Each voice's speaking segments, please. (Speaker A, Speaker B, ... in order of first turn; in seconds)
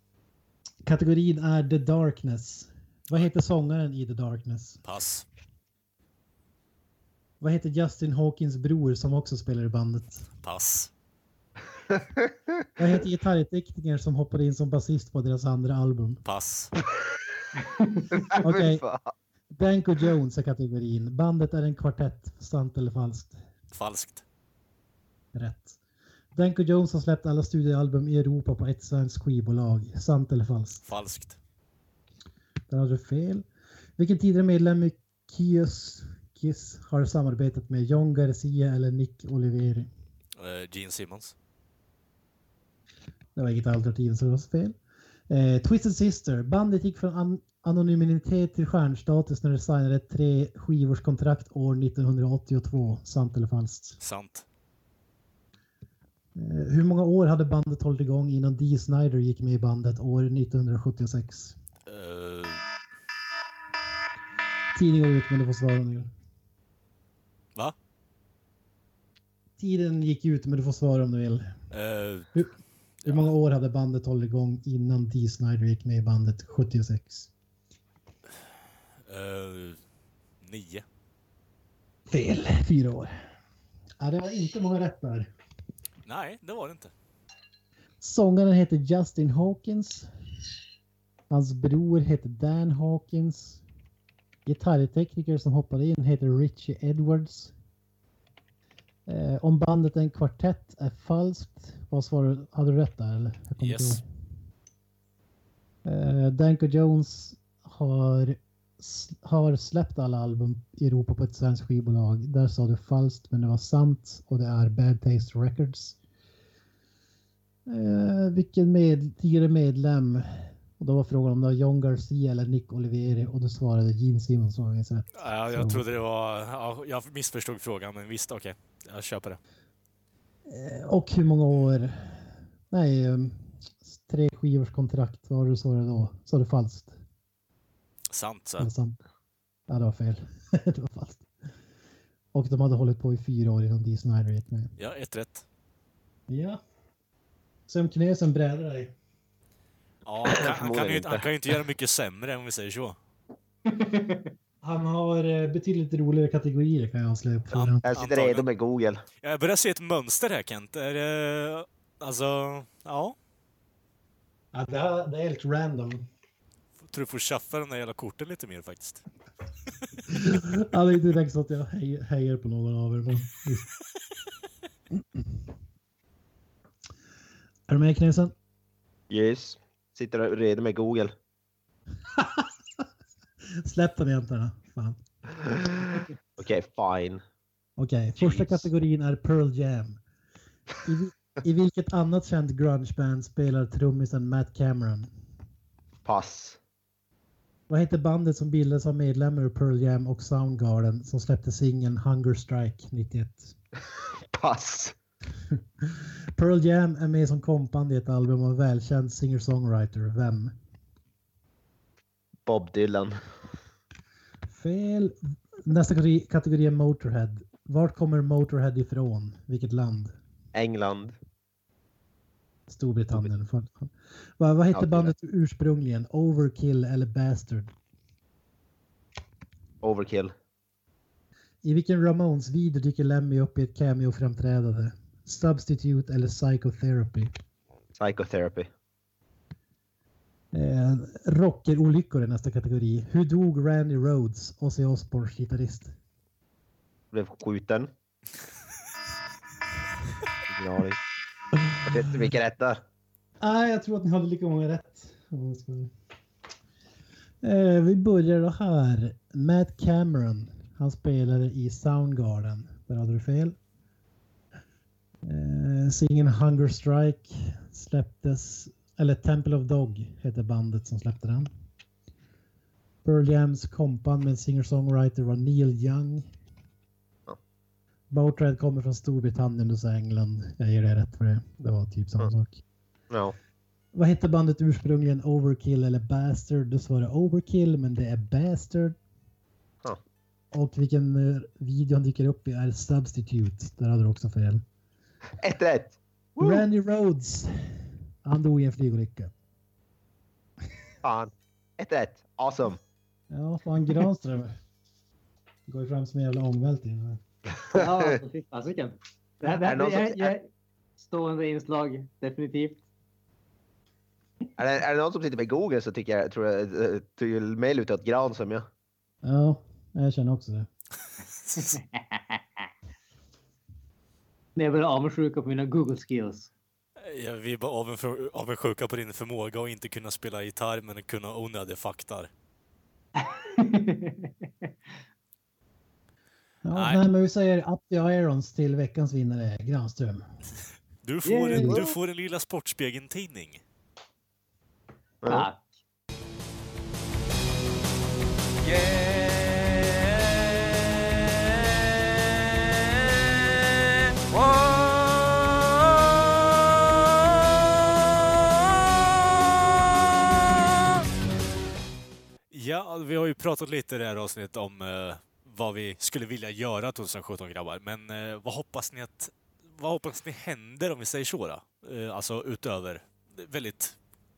Speaker A: 0.8-4.8, 7.4-10.3, 12.8-16.2, 18.4-18.8, 19.5-23.4, 25.4-25.8, 26.4-30.9, 32.7-33.5, 34.0-39.9, 43.4-44.8, 45.3-54.0, 56.4-61.6, 64.7-66.1, 69.6-71.5, 73.1-77.3, 82.1-83.1, 84.0-85.3, 88.0-90.1, 91.3-93.6, 94.5-97.5, 99.1-104.0, 105.8-116.0, 117.7-125.8, 130.5-137.0, 138.6-139.0, 139.7-141.3, 142.3-144.7, 146.3-146.6, 147.7-148.9, 154.6-157.8, 164.5-166.1, 170.1-173.7, 177.7-178.3, 182.1-182.5, 183.6-185.0, 187.8-190.0, 190.8-195.1, 197.7-203.6, 205.8-210.5, 214.5-215.2, 215.7-220.1, 222.7-227.7, 231.6-237.3, 240.5-245.9, 253.4-255.9, 257.4-263.6, 265.2-271.5, 273.1-276.3, 278.1-282.6, 283.9-289.0, 290.5-294.6, 296.4-297.5, 298.2-299.3, 303.3-304.6, 305.7-307.2, 319.2-320.7, 336.6-340.2
Speaker B: 4.8-5.2, 10.4-10.9, 16.2-16.7, 23.7-24.2, 30.9-31.4, 40.4-41.3, 54.0-54.5, 61.9-62.6, 71.7-72.3, 73.0-73.3, 79.1-79.8, 80.4-80.8, 86.1-86.9, 103.6-104.0, 125.2-129.4, 138.1-138.7, 144.8-145.4, 150.1-153.0, 157.5-158.5, 159.2-163.2, 166.8-169.0, 321.4-321.8, 327.0-332.3, 336.8-337.0, 341.0-343.6, 362.5-374.0
Speaker C: 11.9-12.5, 18.1-19.1, 150.3-151.3, 157.9-159.0, 179.1-181.1, 186.4-187.2, 188.2-188.7, 196.1-196.6, 204.2-204.9, 212.5-213.2, 220.5-221.2, 224.7-225.1, 229.8-230.3, 238.0-238.7, 247.1-247.9, 250.5-251.0, 251.8-252.8, 295.4-296.6, 301.0-302.8, 307.7-308.1, 309.5-310.3, 314.6-318.7, 345.2-345.5
Speaker D: 17.6-18.1, 153.7-154.3, 307.7-310.5, 311.0-312.8, 321.6-322.4, 324.6-326.5, 333.2-334.7, 341.2-341.8, 345.3-345.6
Speaker E: 348.6-353.5, 354.3-356.9